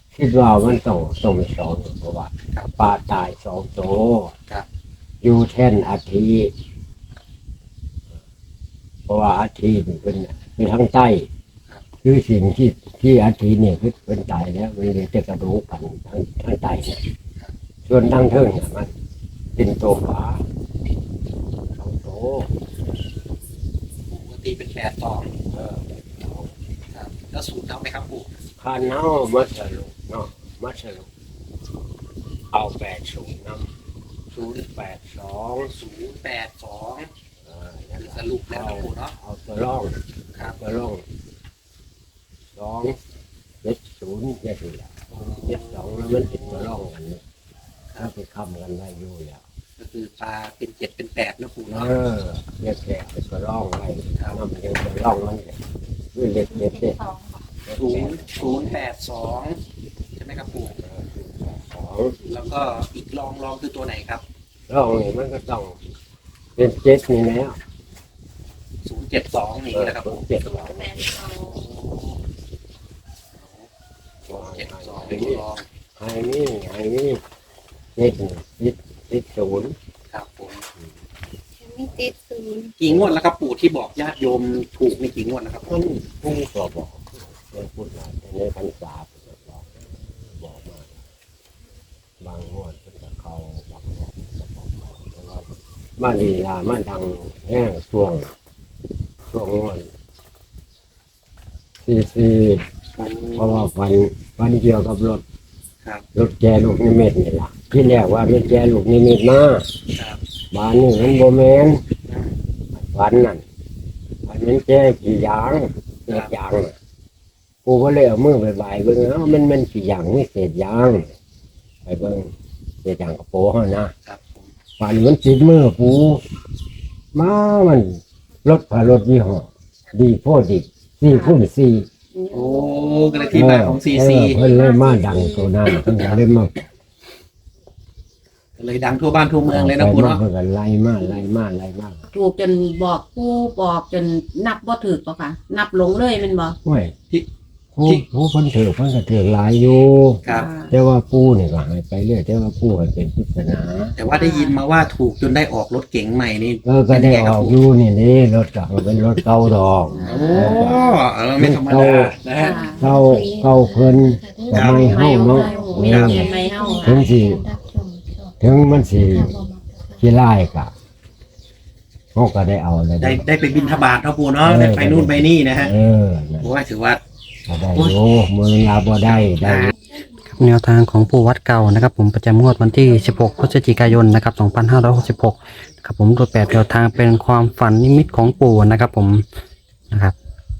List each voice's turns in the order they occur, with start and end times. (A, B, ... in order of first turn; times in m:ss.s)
0:00.1-0:04.3 A
0:05.2-0:06.5 A
0:09.1-0:11.3 A
0:12.0-0:17.0 A
0:17.9-0:18.9 A
0:19.6-0:20.4 A
0:21.8-0:22.5 A
0:24.1-0:25.3 B
0:25.5-0:26.5 A
0:26.9-0:28.3 B
0:28.6-0:31.1 A
0:32.5-0:33.7 A
0:34.3-0:35.7 A
0:34.4-0:34.6 B
0:35.7-0:37.1 B
0:37.4-0:41.0 A
0:38.0-0:39.1 B
0:42.5-0:43.0 A
0:43.6-0:47.2 A
0:45.1-0:46.7 B
0:48.0-0:49.4 A
0:49.8-0:51.9 B
0:51.7-0:55.6 A
0:56.1-0:57.0 A
0:57.6-0:58.7 A
0:57.8-0:59.6 B
1:00.2-1:00.8 B
1:00.8-1:02.2 A
1:02.3-1:04.2 B
1:04.7-1:05.8 A
1:06.6-1:07.6 A
1:08.8-1:10.2 B
1:09.7-1:11.5 A
1:11.3-1:12.2 B
1:13.4-1:13.7 B
1:14.3-1:15.4 A
1:14.3-1:15.7 B
1:16.0-1:17.2 A
1:18.0-1:19.8 A
1:20.1-1:20.6 B
1:21.6-1:22.7 C
1:22.8-1:25.8 B
1:22.9-1:23.1 A
1:25.7-1:31.0 A
1:32.2-1:35.5 A
1:36.0-1:38.3 A
1:39.3-1:39.9 A
1:41.8-1:42.7 A
1:43.0-1:43.7 B
1:43.4-1:45.2 A
1:46.1-1:49.7 A
1:49.9-1:50.2 B
1:50.5-1:51.8 A
1:52.1-1:52.4 B
1:52.8-1:53.4 A
1:54.3-1:56.8 A
1:56.1-1:56.3 B
1:57.6-2:01.2 A
2:01.9-2:02.3 A
2:02.8-2:03.9 A
2:04.1-2:04.5 B
2:04.8-2:06.2 A
2:07.1-2:11.9 A
2:11.1-2:11.4 D
2:12.1-2:13.5 D
2:12.3-2:14.4 B
2:13.3-2:16.7 A
2:14.4-2:15.5 D
2:15.7-2:16.2 B
2:18.6-2:20.2 B
2:19.5-2:22.0 A
2:22.1-2:26.6 D
2:26.6-2:27.0 A
2:27.8-2:34.0 A
2:30.2-2:30.5 B
2:30.3-2:30.7 D
2:34.0-2:37.6 B
2:34.1-2:34.6 D
2:36.6-2:40.9 A
2:40.0-2:40.7 D
2:40.0-2:42.7 B
2:41.4-2:42.2 A
2:42.3-2:42.8 D
2:42.7-2:47.5 A
2:43.0-2:43.4 C
2:44.5-2:46.4 B
2:44.8-2:47.1 D
2:46.4-2:48.2 C
2:48.4-2:50.7 A
2:49.5-2:49.8 C
2:52.2-2:53.2 A
2:53.0-2:55.7 B
2:53.6-2:53.8 D
2:54.4-2:56.5 A
2:56.4-2:57.0 B
2:57.5-2:59.7 A
2:59.0-2:59.7 B
3:00.3-3:09.2 E